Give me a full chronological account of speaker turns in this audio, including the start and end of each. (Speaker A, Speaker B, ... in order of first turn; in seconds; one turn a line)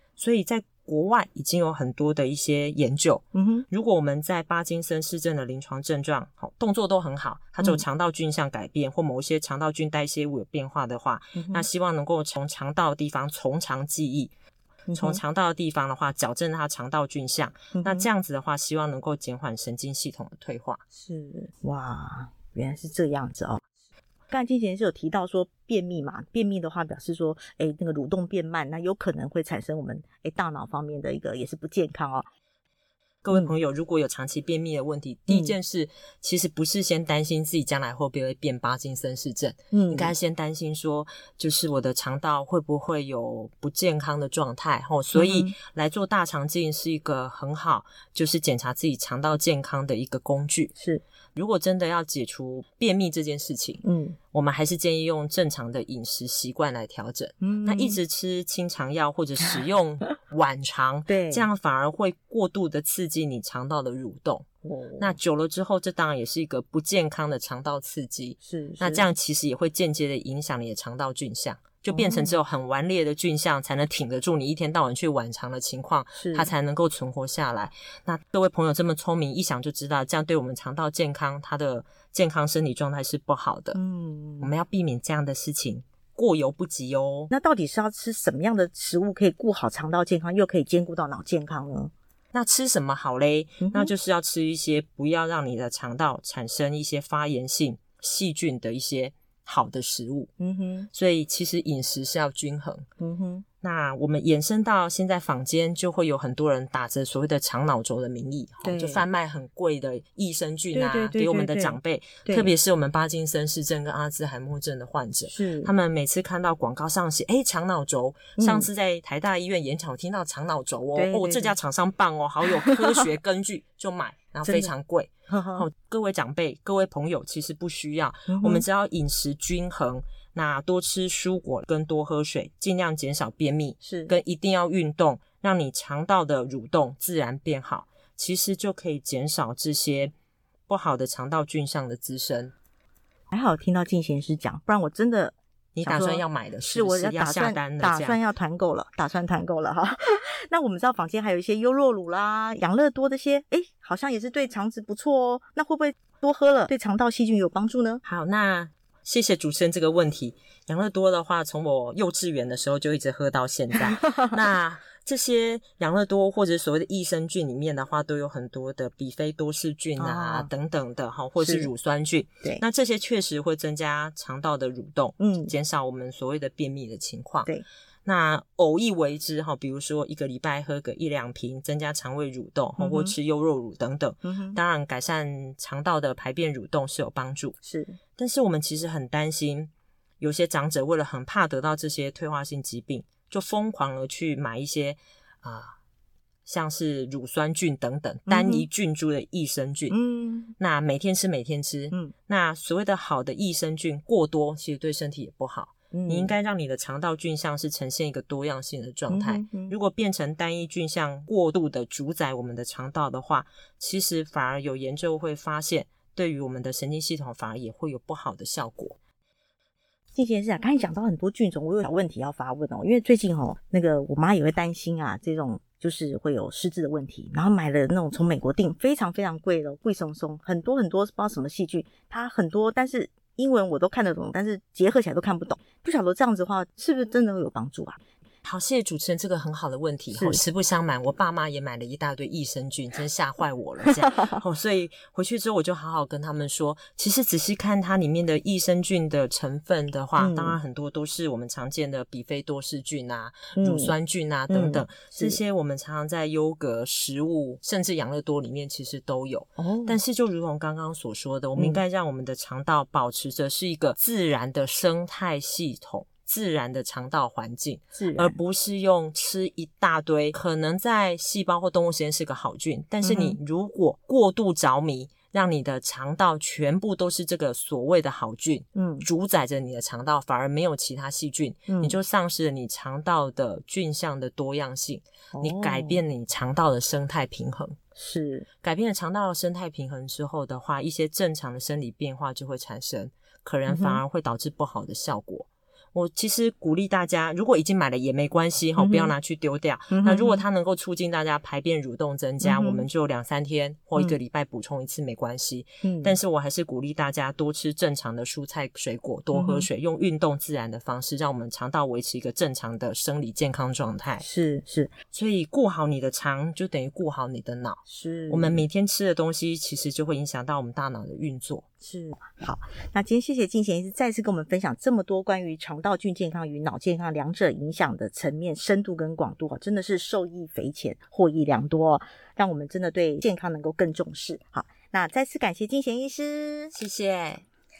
Speaker A: 0.2-14.3
Speaker B: 3.3-3.6
Speaker B: 11.3-11.7
Speaker B: 14.9-15.2
Speaker A: 14.9-20.8
Speaker B: 17.7-18.1
Speaker B: 20.9-23.6
Speaker B: 24.3-32.3
Speaker A: 33.2-50.7
Speaker B: 35.3-35.5
Speaker B: 39.7-40.1
Speaker B: 45.1-45.5
Speaker B: 50.8-51.0
Speaker A: 51.3-64.5
Speaker B: 53.8-54.2
Speaker B: 57.4-58.0
Speaker B: 61.1-61.5
Speaker B: 64.6-65.2
Speaker A: 65.0-83.8
Speaker B: 68.4-69.1
Speaker B: 71.9-72.3
Speaker B: 76.2-76.5
Speaker B: 83.7-84.5
Speaker A: 84.4-87.3
Speaker B: 87.3-91.9
Speaker A: 92.3-100.3
Speaker B: 93.6-93.9
Speaker B: 100.4-100.9
Speaker A: 100.9-102.8
Speaker B: 103.0-103.4
Speaker A: 103.6-140.1
Speaker B: 108.6-109.0
Speaker B: 110.7-112.5
Speaker B: 115.3-115.7
Speaker B: 118.4-118.7
Speaker B: 120.9-121.5
Speaker B: 122.5-122.8
Speaker B: 124.5-124.7
Speaker B: 125.3-125.7
Speaker B: 128.3-128.6
Speaker B: 133.8-134.1
Speaker A: 140.7-142.5
Speaker B: 143.3-158.0
Speaker A: 145.7-148.2
Speaker A: 158.0-177.5
Speaker B: 163.9-164.2
Speaker B: 170.0-170.5
Speaker B: 171.4-171.7
Speaker B: 175.2-175.5
Speaker A: 178.1-187.6
Speaker B: 182.8-183.1
Speaker B: 184.2-184.6
Speaker B: 187.6-188.0
Speaker A: 188.2-195.8
Speaker A: 196.4-199.9
Speaker B: 198.3-198.7
Speaker B: 199.9-200.5
Speaker A: 200.6-219.0
Speaker B: 205.9-206.3
Speaker B: 209.1-209.7
Speaker B: 220.1-238.0
Speaker A: 238.4-287.8
Speaker B: 240.1-240.4
Speaker B: 243.9-244.3
Speaker B: 250.2-250.6
Speaker B: 253.5-253.9
Speaker B: 254.5-255.4
Speaker B: 259.6-260.0
Speaker B: 261.6-261.8
Speaker B: 267.9-268.4
Speaker B: 273.0-273.4
Speaker B: 278.7-279.1
Speaker B: 281.7-281.9
Speaker B: 285.3-286.0
Speaker B: 287.9-288.4
Speaker A: 288.6-314.2
Speaker B: 293.7-294.0
Speaker B: 298.8-299.1
Speaker B: 299.9-300.4
Speaker B: 302.4-302.8
Speaker B: 305.8-306.2
Speaker B: 309.3-309.7
Speaker B: 314.2-314.9
Speaker A: 315.1-321.6
Speaker B: 317.9-318.7
Speaker B: 321.8-336.7
Speaker A: 336.7-337.4